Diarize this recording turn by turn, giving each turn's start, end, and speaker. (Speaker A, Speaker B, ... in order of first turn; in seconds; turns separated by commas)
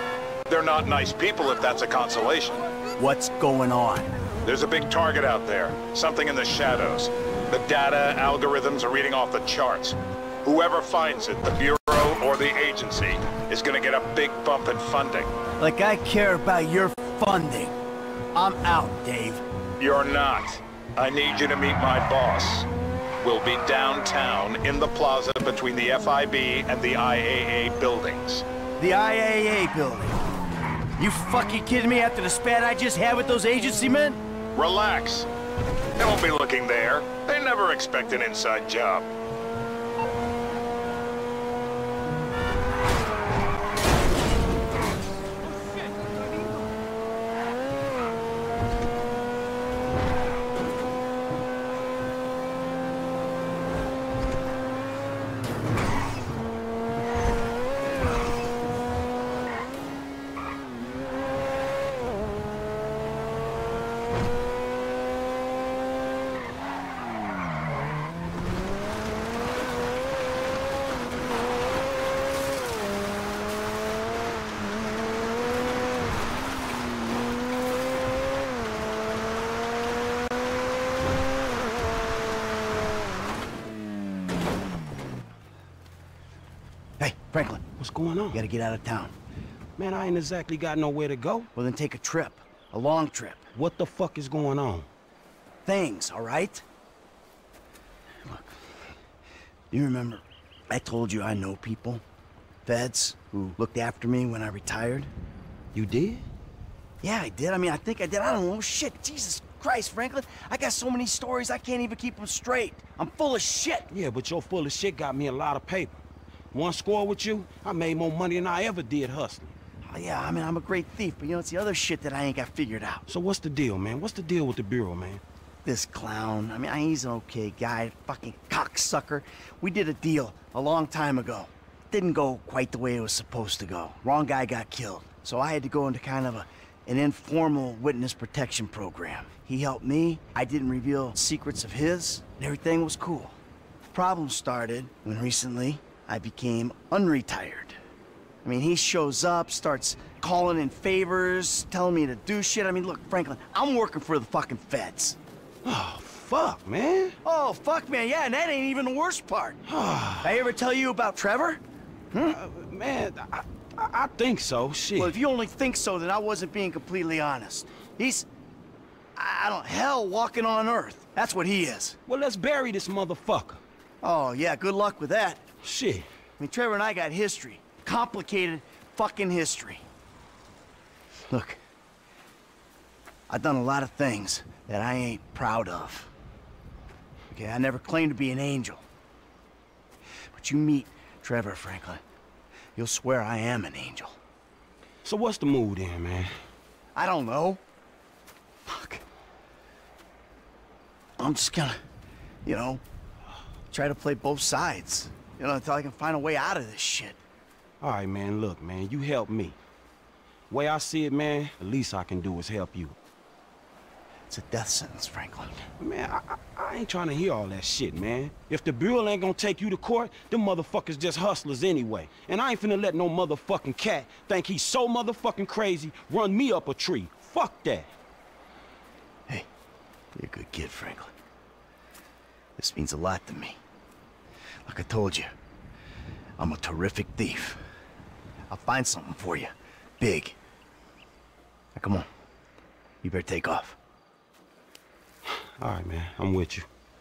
Speaker A: 0.5-2.6, Speaker B: 3.0-4.1, Speaker A: 4.4-15.3, Speaker B: 15.6-17.7, Speaker B: 18.3-19.4, Speaker A: 19.8-22.6, Speaker A: 23.2-28.4, Speaker B: 28.8-30.2, Speaker B: 31.0-34.2, Speaker A: 34.5-35.3, Speaker A: 36.0-39.1, Speaker B: 87.0-87.6, Speaker C: 87.8-88.2, Speaker B: 88.3-89.1, Speaker C: 89.8-91.4, Speaker B: 91.5-93.5, Speaker C: 93.6-94.8, Speaker B: 95.6-96.6, Speaker B: 98.2-98.5, Speaker B: 99.7-102.0, Speaker B: 102.6-105.1, Speaker C: 105.8-106.2, Speaker B: 107.0-113.9, Speaker C: 113.9-116.0, Speaker C: 116.5-119.5, Speaker B: 119.8-123.0, Speaker C: 123.1-125.2, Speaker B: 125.6-143.4, Speaker B: 143.9-147.8, Speaker B: 148.4-155.2, Speaker C: 155.7-157.1, Speaker B: 157.2-159.6, Speaker C: 159.7-160.2, Speaker B: 160.2-161.6, Speaker B: 162.1-162.4, Speaker C: 162.4-165.0, Speaker B: 164.9-168.3, Speaker B: 169.2-172.0, Speaker C: 172.1-173.6, Speaker B: 174.0-175.4, Speaker C: 175.7-176.1, Speaker B: 176.4-179.8, Speaker B: 181.3-181.6, Speaker B: 183.3-186.1, Speaker B: 187.3-188.8, Speaker B: 190.3-192.0, Speaker B: 192.8-194.2, Speaker C: 195.1-196.3, Speaker B: 196.9-197.6, Speaker B: 198.7-199.0, Speaker B: 201.2-201.8, Speaker B: 202.4-202.8, Speaker B: 203.7-207.2, Speaker C: 207.8-209.5, Speaker C: 210.5-212.9, Speaker B: 214.3-215.6, Speaker C: 215.8-227.9, Speaker B: 230.2-231.1, Speaker B: 232.6-233.6, Speaker B: 234.7-235.3, Speaker B: 236.4-237.6, Speaker B: 238.5-240.4, Speaker B: 241.7-242.1, Speaker B: 243.0-243.8, Speaker C: 245.6-246.6